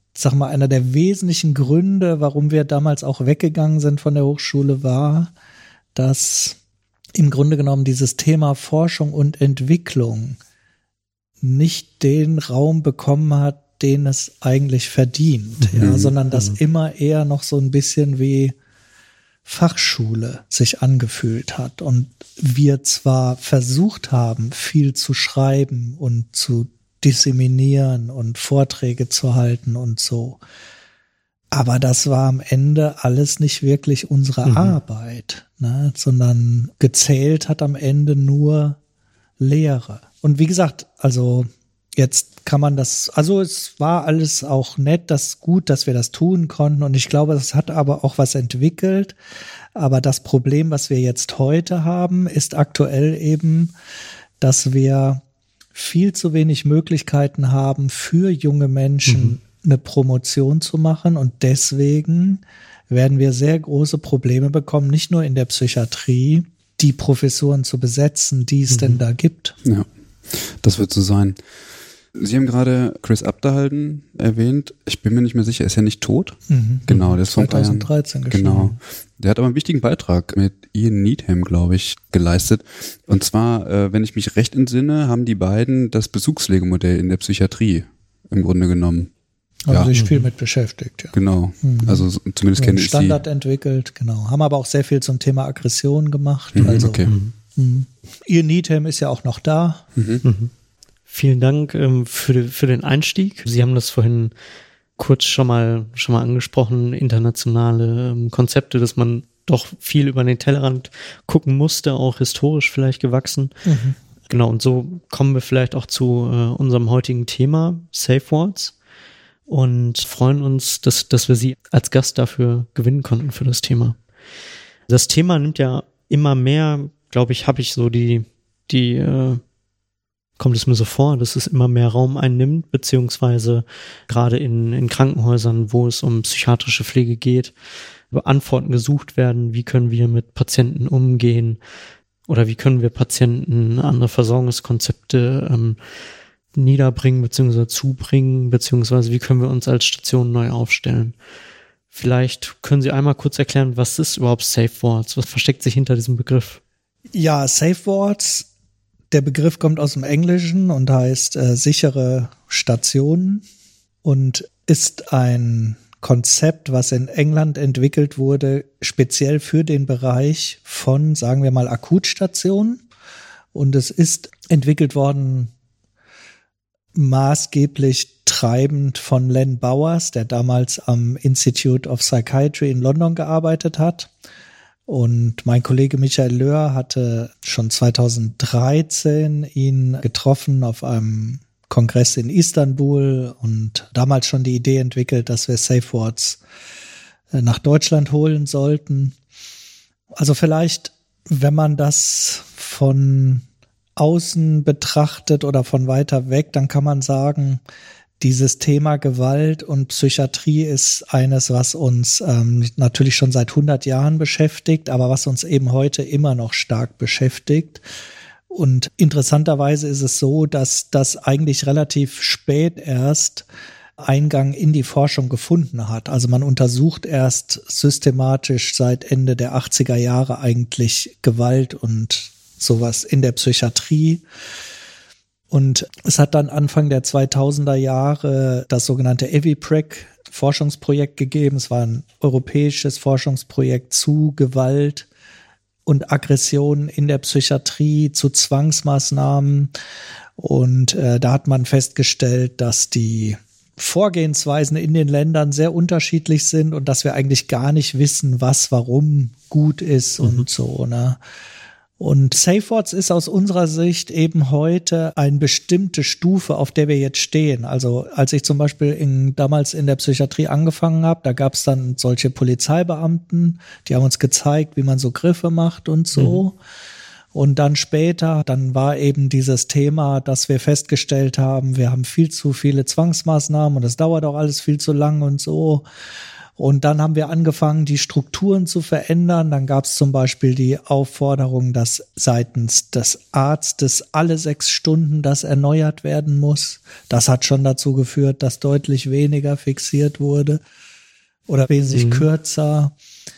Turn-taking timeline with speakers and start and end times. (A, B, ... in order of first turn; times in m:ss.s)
0:00.1-0:05.3 A
0:05.9-0:06.6 A
0:07.2-0:10.4 A
0:11.4-0:18.6 A
0:15.6-0:16.6 B
0:15.8-0:16.1 C
0:19.4-0:30.4 A
0:31.5-0:38.8 A
0:34.4-0:34.8 B
0:39.4-0:49.2 A
0:49.8-0:53.7 A
0:54.4-0:55.2 A
0:55.7-1:09.6 A
0:59.1-0:59.3 B
1:08.7-1:09.0 B
1:09.6-1:11.4 C
1:12.1-1:16.4 C
1:16.5-1:18.8 A
1:16.9-1:29.1 C
1:29.7-1:39.8 A
1:29.7-1:29.9 C
1:29.9-1:30.3 B
1:31.1-1:33.2 C
1:36.5-1:37.1 C
1:37.0-1:37.3 B
1:40.0-1:40.2 C
1:40.2-1:40.5 B
1:41.1-1:44.3 B
1:45.0-1:53.5 B
1:53.6-1:54.0 A
1:54.3-1:58.8 B
1:59.5-2:04.0 B
2:04.9-2:09.4 B
2:10.4-2:17.5 B
2:18.1-2:21.6 B
2:22.3-2:25.8 B
2:26.5-2:31.1 B
2:31.9-2:36.6 B
2:37.1-2:38.5 A
2:39.1-2:43.4 A
2:44.0-2:52.8 A
2:53.5-2:55.5 A
2:56.9-3:04.1 A
3:04.9-3:16.4 A
3:17.3-3:19.2 A
3:20.1-3:23.4 A
3:24.0-3:27.6 A
3:28.2-3:37.8 A
3:38.5-3:43.5 A
3:44.0-3:54.2 A
3:55.5-4:05.1 A
4:05.8-4:09.7 A
4:10.4-4:21.2 A
4:22.0-4:36.6 A
4:37.3-4:45.8 A
4:46.6-5:00.6 A
5:01.5-5:03.0 A
5:01.9-5:02.3 B